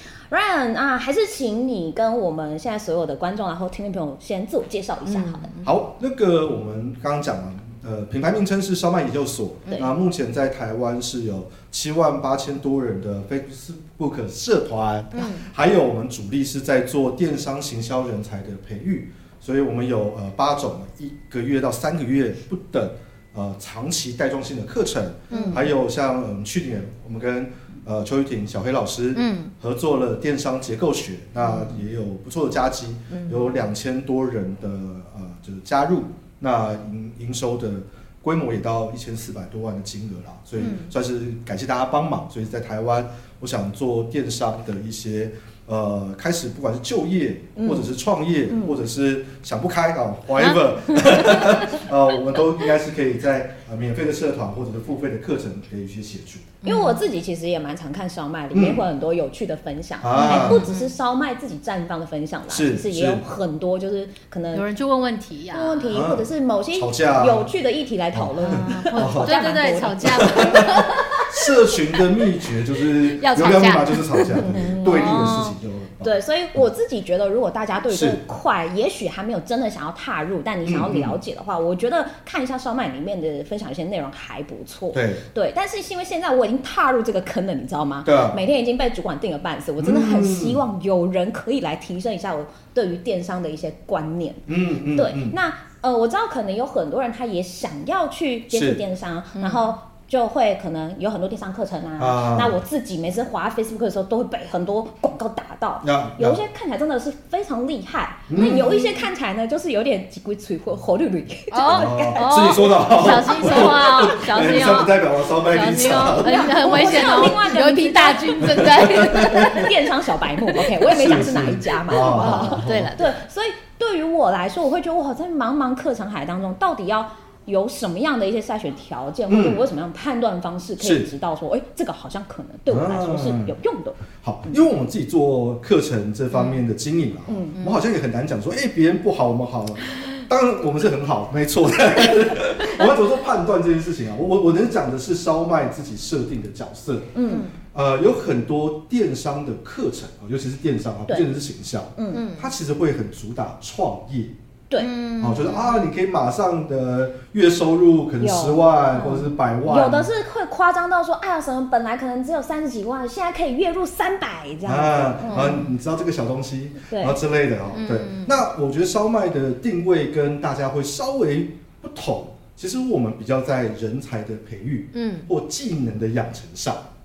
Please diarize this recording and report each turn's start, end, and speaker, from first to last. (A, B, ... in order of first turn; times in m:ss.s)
0:00.3-0:05.5 A
0:05.1-0:05.7 B
0:05.6-0:56.6 C
0:15.2-0:15.4 B
0:25.3-0:25.7 A
0:25.3-0:25.7 B
0:29.2-0:29.5 B
0:33.1-0:33.5 B
0:40.6-0:40.9 B
0:47.6-0:47.9 A
0:48.5-0:48.8 A
0:50.4-0:51.8 B
0:56.6-0:57.0 B
0:56.6-1:04.6 A
0:58.5-0:58.9 C
1:00.0-1:00.7 C
1:00.1-1:00.9 B
1:02.5-1:03.3 C
1:04.5-1:06.0 B
1:05.5-1:10.8 A
1:05.9-1:07.5 C
1:08.1-1:09.4 C
1:08.4-1:11.6 B
1:10.0-1:16.6 C
1:12.9-1:15.6 B
1:14.4-1:15.5 A
1:16.0-1:54.9 A
1:17.9-1:18.2 C
1:20.6-1:21.2 C
1:24.9-1:25.2 C
1:28.0-1:28.4 C
1:29.8-1:30.6 C
1:34.5-1:35.4 C
1:38.5-1:38.8 C
1:39.4-1:39.7 B
1:42.0-1:42.6 C
1:45.8-1:46.4 C
1:48.3-1:48.7 C
1:48.4-1:49.0 B
1:51.5-1:59.9 B
1:51.7-1:57.2 C
1:56.0-2:14.6 A
1:58.4-1:59.6 C
2:00.8-2:03.0 C
2:01.9-2:03.1 B
2:09.3-2:09.6 C
2:10.8-2:11.1 C
2:12.7-2:13.5 C
2:14.2-2:27.1 C
2:17.3-2:17.6 A
2:27.1-2:27.5 A
2:27.2-2:27.5 B
2:27.7-2:34.4 C
2:32.0-2:32.2 A
2:32.1-2:32.5 B
2:34.8-2:35.9 B
2:35.2-2:40.1 C
2:38.2-2:45.6 A
2:44.6-2:56.9 C
2:45.3-2:45.7 B
2:46.9-2:47.2 A
2:47.7-2:48.4 B
2:54.9-2:55.3 B